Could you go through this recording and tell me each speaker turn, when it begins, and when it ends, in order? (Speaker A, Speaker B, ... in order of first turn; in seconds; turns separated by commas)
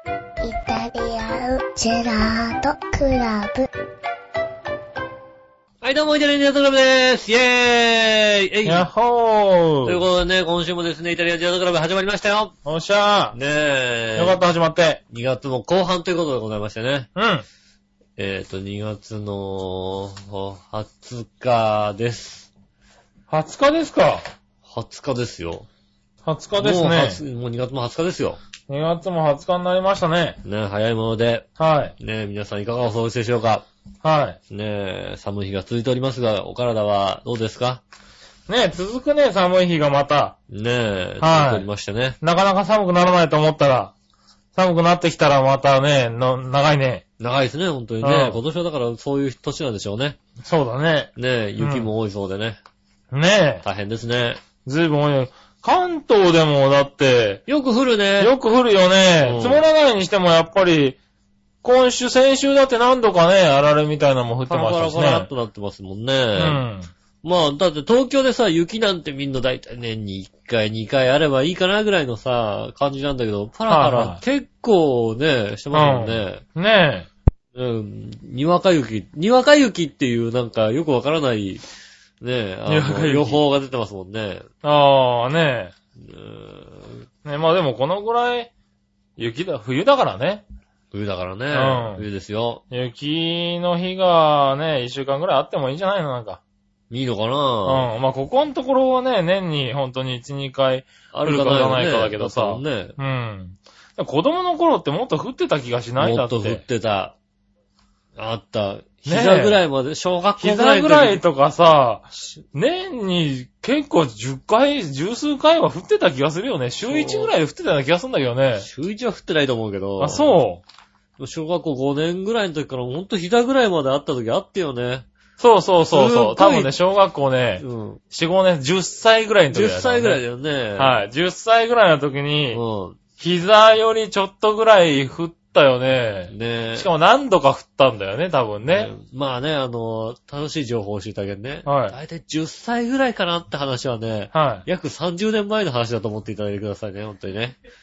Speaker A: 0.4-3.7, Speaker B: 5.8-8.9, Speaker C: 8.6-10.0, Speaker B: 9.8-12.5, Speaker C: 12.7-13.3, Speaker B: 13.3-14.4, Speaker C: 14.2-15.0, Speaker B: 15.1-17.1, Speaker C: 17.1-17.4, Speaker B: 18.2-22.5, Speaker C: 23.3-24.2, Speaker B: 24.6-25.7, Speaker C: 26.2-27.2, Speaker B: 26.6-28.4, Speaker C: 28.7-30.4, Speaker B: 30.4-31.5, Speaker C: 31.6-31.9, Speaker B: 32.0-33.6, Speaker C: 34.0-34.4, Speaker B: 34.5-37.8, Speaker C: 38.5-40.4, Speaker B: 40.5-42.2, Speaker C: 41.2-41.7, Speaker C: 42.2-43.9, Speaker C: 44.5-47.0, Speaker B: 47.2-50.2, Speaker C: 48.0-48.4, Speaker C: 50.4-51.9, Speaker B: 51.1-52.6, Speaker C: 53.1-53.6, Speaker B: 53.6-54.4, Speaker C: 54.6-57.4, Speaker B: 57.5-58.3, Speaker C: 58.2-61.0, Speaker B: 59.2-59.6, Speaker C: 61.6-65.3, Speaker B: 64.5-66.6, Speaker C: 66.3-66.9, Speaker B: 67.2-76.4, Speaker C: 73.7-74.2, Speaker C: 75.7-77.1, Speaker B: 77.5-81.6, Speaker B: 82.2-84.5, Speaker C: 82.7-83.4, Speaker C: 84.6-85.7, Speaker B: 86.0-87.0, Speaker C: 87.2-88.5, Speaker C: 89.2-90.4, Speaker B: 90.9-92.6, Speaker C: 91.5-92.0, Speaker C: 92.7-96.4, Speaker B: 96.9-97.9, Speaker C: 97.6-106.6, Speaker B: 101.1-102.9, Speaker B: 106.0-107.2, Speaker B: 108.2-111.2, Speaker C: 109.0-109.6, Speaker C: 110.4-118.7, Speaker B: 116.8-117.3, Speaker B: 118.6-120.3, Speaker C: 120.0-120.6, Speaker B: 121.2-125.0, Speaker C: 125.4-130.2, Speaker B: 125.9-126.7, Speaker B: 127.6-128.0, Speaker B: 129.5-131.0, Speaker C: 130.8-132.6, Speaker B: 132.5-133.0, Speaker C: 133.2-138.9, Speaker B: 136.3-136.9, Speaker B: 138.7-147.6, Speaker C: 141.6-141.9, Speaker C: 144.3-144.7